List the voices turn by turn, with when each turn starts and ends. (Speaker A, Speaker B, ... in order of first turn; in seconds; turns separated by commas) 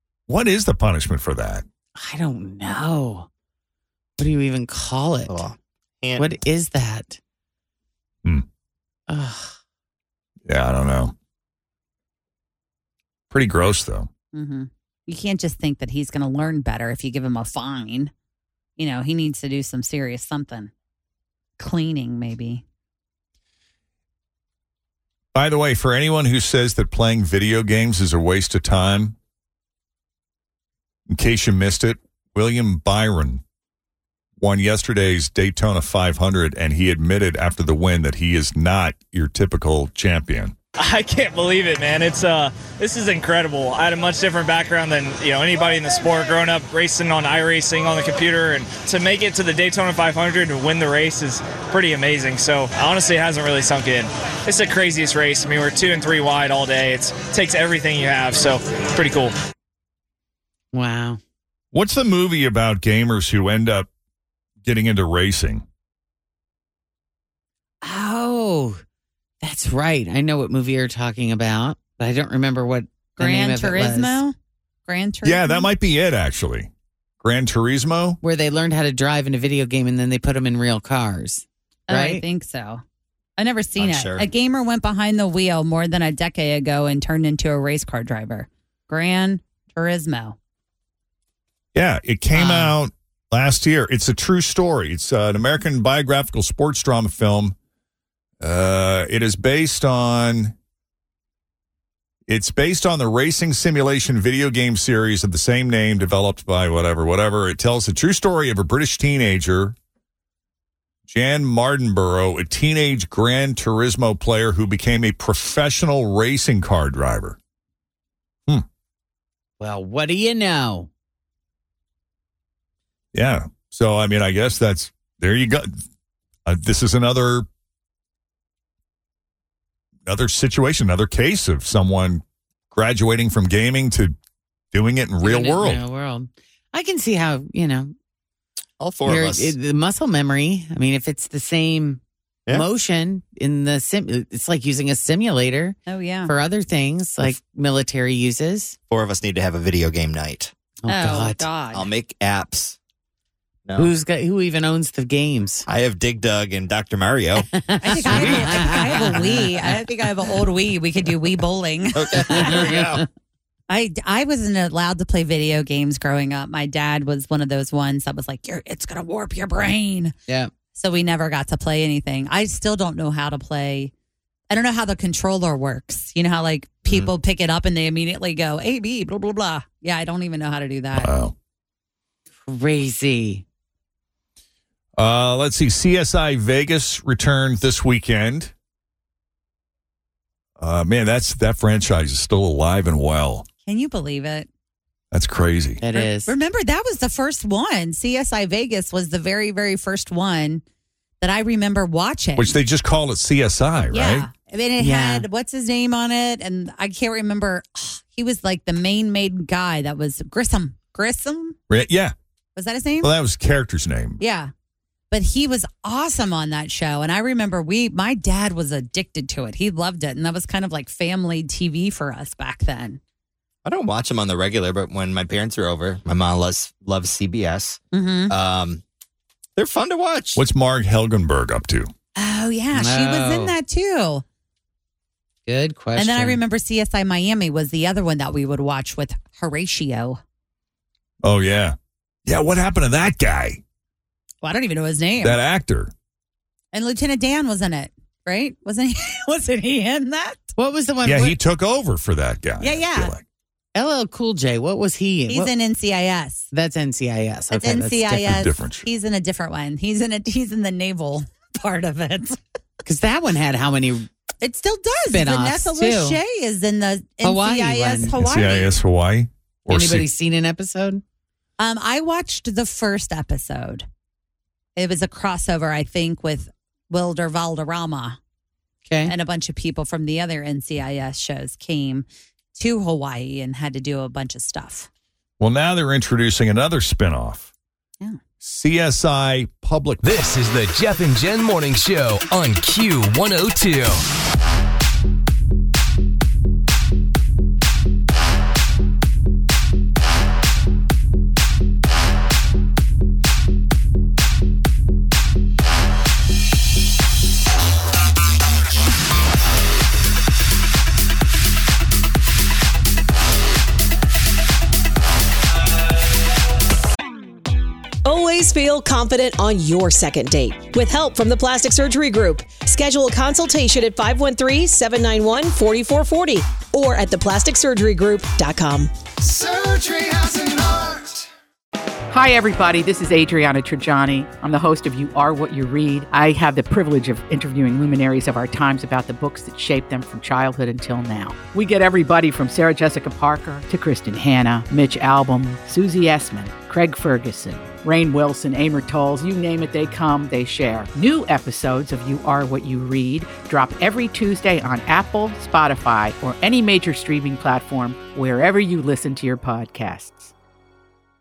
Speaker A: 0.3-1.6, Speaker B: 2.0-3.3, Speaker B: 4.2-5.4, Speaker C: 5.3-6.4, Speaker B: 6.2-7.2, Speaker B: 9.1-9.5, Speaker A: 10.5-11.1, Speaker A: 13.3-14.1, Speaker D: 14.3-18.1, Speaker D: 18.8-20.7, Speaker D: 21.6-22.6, Speaker A: 25.4-29.1, Speaker A: 31.1-33.4, Speaker A: 34.4-40.5, Speaker E: 40.8-59.4, Speaker B: 60.7-61.2, Speaker A: 61.7-63.9, Speaker A: 64.6-65.6, Speaker B: 67.8-68.8, Speaker B: 69.4-74.2, Speaker D: 73.2-74.3, Speaker D: 74.9-75.7, Speaker A: 75.2-76.7, Speaker A: 77.2-78.2, Speaker B: 78.2-82.2, Speaker D: 81.9-82.8, Speaker D: 83.4-90.4, Speaker C: 83.8-84.3, Speaker A: 91.7-97.5, Speaker D: 92.3-92.8, Speaker A: 98.4-100.5, Speaker A: 102.3-109.8, Speaker A: 111.1-117.4, Speaker B: 119.6-120.9, Speaker A: 123.1-125.8, Speaker A: 126.5-127.5, Speaker A: 130.1-134.2, Speaker A: 134.7-135.8, Speaker B: 135.2-137.9, Speaker C: 138.8-139.6, Speaker B: 139.0-148.8, Speaker D: 145.9-146.3, Speaker C: 148.9-150.5, Speaker B: 150.8-151.5, Speaker D: 150.9-151.9, Speaker C: 151.7-152.8, Speaker C: 153.7-153.9, Speaker B: 153.8-155.7, Speaker C: 155.7-159.1, Speaker B: 157.5-159.5, Speaker D: 157.8-162.6, Speaker C: 161.9-163.0, Speaker B: 162.3-163.1, Speaker D: 163.7-170.1, Speaker D: 170.7-173.9, Speaker D: 174.5-181.1, Speaker A: 180.9-181.3, Speaker B: 182.4-183.4, Speaker A: 185.0-188.5, Speaker A: 190.6-193.5, Speaker D: 193.7-194.5, Speaker A: 195.1-195.8, Speaker B: 195.8-196.3, Speaker D: 195.9-200.6, Speaker D: 201.2-202.6, Speaker A: 202.4-204.3, Speaker D: 203.9-211.6, Speaker B: 204.8-205.2, Speaker A: 211.7-212.1, Speaker D: 212.5-213.1, Speaker A: 213.0-214.2, Speaker D: 214.2-214.5, Speaker D: 215.1-223.0, Speaker C: 223.6-228.8, Speaker D: 227.9-228.3, Speaker C: 229.6-230.4, Speaker A: 230.4-231.9, Speaker D: 232.2-234.2, Speaker B: 232.7-233.5, Speaker B: 235.5-236.4, Speaker D: 236.0-240.2, Speaker A: 241.2-243.6, Speaker D: 244.4-245.4, Speaker A: 245.2-245.9, Speaker D: 246.7-250.5, Speaker B: 250.6-251.4, Speaker A: 251.0-253.2, Speaker D: 252.6-253.1, Speaker B: 253.8-255.5, Speaker D: 255.3-256.5, Speaker B: 256.5-258.2, Speaker D: 257.5-262.4, Speaker A: 258.2-258.9, Speaker B: 262.9-264.1, Speaker D: 264.4-268.8, Speaker B: 265.1-266.2, Speaker B: 267.2-268.1, Speaker A: 268.1-270.1, Speaker B: 269.7-271.0, Speaker D: 271.6-273.9, Speaker D: 274.8-278.2, Speaker B: 278.9-279.1, Speaker D: 279.1-284.9, Speaker A: 285.4-287.5, Speaker A: 288.4-290.2, Speaker F: 290.0-294.0, Speaker G: 318.0-328.9, Speaker H: 332.1-360.3